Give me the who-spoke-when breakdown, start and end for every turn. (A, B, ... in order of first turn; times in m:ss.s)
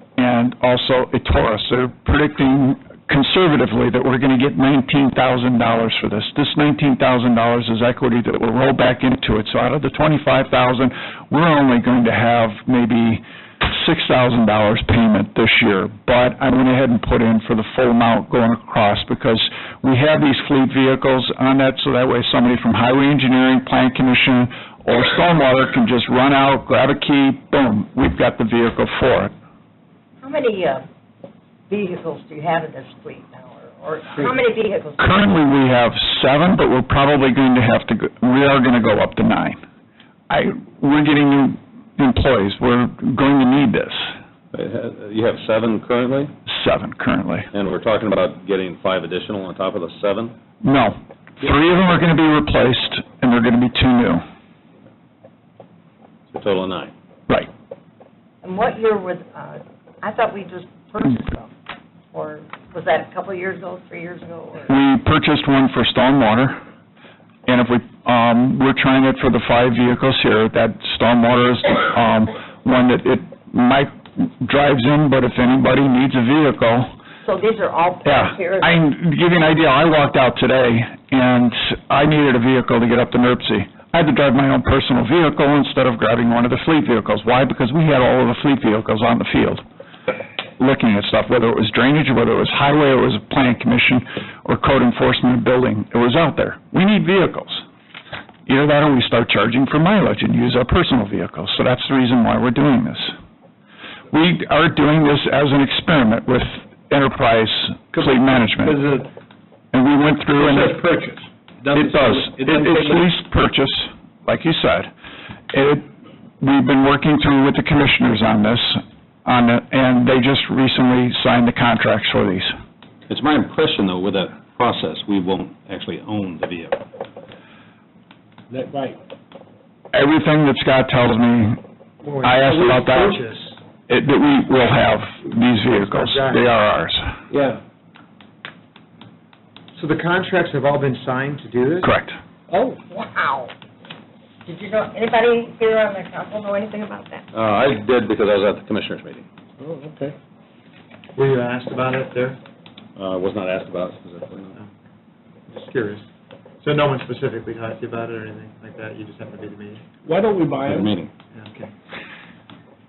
0:00.2-0:29.3 A
0:30.2-0:30.8 B
0:31.7-0:35.3 B
0:35.0-0:39.6 A
0:40.3-0:44.1 A
0:44.6-0:46.3 C
0:46.4-0:47.5 A
0:47.6-0:50.3 C
0:50.6-0:54.2 A
0:56.4-0:56.9 C
0:58.4-1:01.5 B
1:02.1-1:04.7 B
1:04.7-1:06.6 A
1:07.5-1:16.9 A
1:17.2-1:18.8 B
1:18.0-1:29.6 A
1:30.6-1:37.6 A
1:38.5-1:43.1 A
1:44.1-1:48.8 A
1:47.9-1:49.1 D
1:49.7-1:50.8 A
1:50.4-1:53.1 D
1:51.7-1:54.9 A
1:55.5-1:55.8 A
1:56.4-2:02.5 A
2:03.1-2:06.7 C
2:08.5-2:09.0 D
2:09.9-2:11.6 A
2:12.0-2:13.6 E
2:12.2-2:13.2 A
2:13.9-2:17.1 A
2:15.7-2:16.5 E
2:17.3-2:17.6 D
2:19.7-2:21.9 E
2:21.8-2:22.2 A
2:22.5-2:22.8 D
2:22.9-2:23.5 B
2:24.4-2:27.2 B
2:27.3-2:29.2 C
2:29.6-2:30.1 D
2:31.2-2:32.4 E
2:33.0-2:34.5 C
2:35.5-2:36.0 E
2:36.6-2:39.8 E
2:40.0-2:41.1 D
2:41.3-2:41.7 E